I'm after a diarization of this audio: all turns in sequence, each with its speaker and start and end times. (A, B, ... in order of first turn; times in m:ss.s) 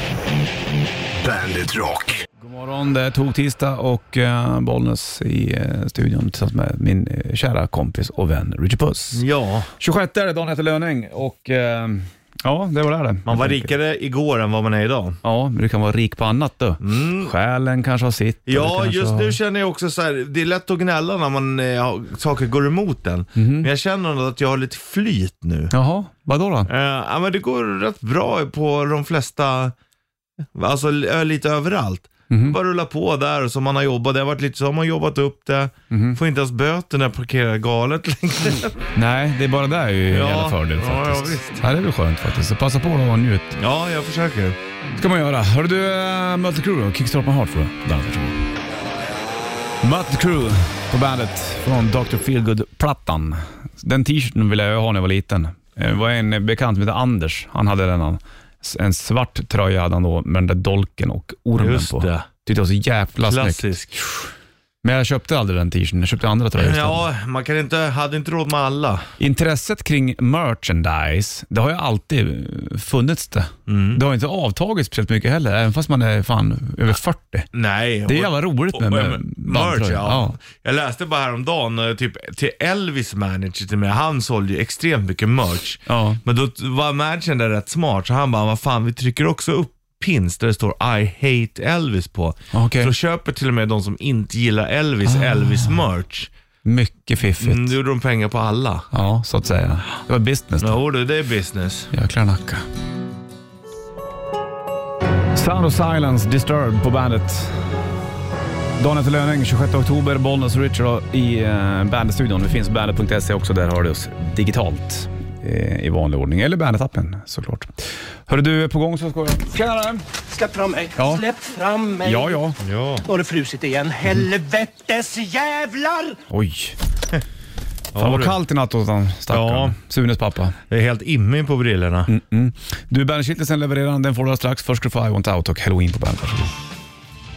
0:01.2-0:02.2 A
0:02.4-0:09.2 B
0:09.1-0:09.7 C
0:09.8-0:13.7 B
0:13.3-0:15.2 C
0:15.2-0:19.4 B
0:16.8-0:17.3 C
0:18.5-0:25.7 C
0:23.4-0:23.7 B
0:25.7-0:26.7 B
0:26.7-0:29.8 C
0:30.6-0:38.8 C
0:32.3-0:32.6 B
0:35.9-0:36.2 B
0:39.0-0:43.6 B
0:40.1-0:41.6 C
0:43.6-0:44.6 C
0:45.0-0:48.4 B
0:49.8-1:03.7 B
1:01.6-1:02.3 C
1:03.2-1:04.0 C
1:04.8-1:07.1 B
1:06.6-1:09.1 C
1:09.2-1:17.5 B
1:13.7-1:14.0 C
1:17.5-1:36.3 C
1:18.1-1:20.4 B
1:25.9-1:26.2 B
1:32.5-1:32.9 B
1:35.1-1:35.7 B
1:36.6-1:37.8 B
1:37.4-1:38.9 C
1:38.9-1:40.8 B
1:40.6-1:41.9 C
1:41.9-1:42.6 B
1:45.4-1:47.6 B
1:48.8-2:00.0 B
2:00.3-2:02.4 A
2:01.0-2:01.2 B
2:02.0-2:02.6 B
2:02.6-2:03.0 C
2:03.0-2:06.2 A
2:06.3-2:06.8 B
2:07.9-2:08.4 C
2:08.0-2:10.6 B
2:09.3-2:09.8 C
2:10.7-2:12.1 C
2:12.1-2:16.6 B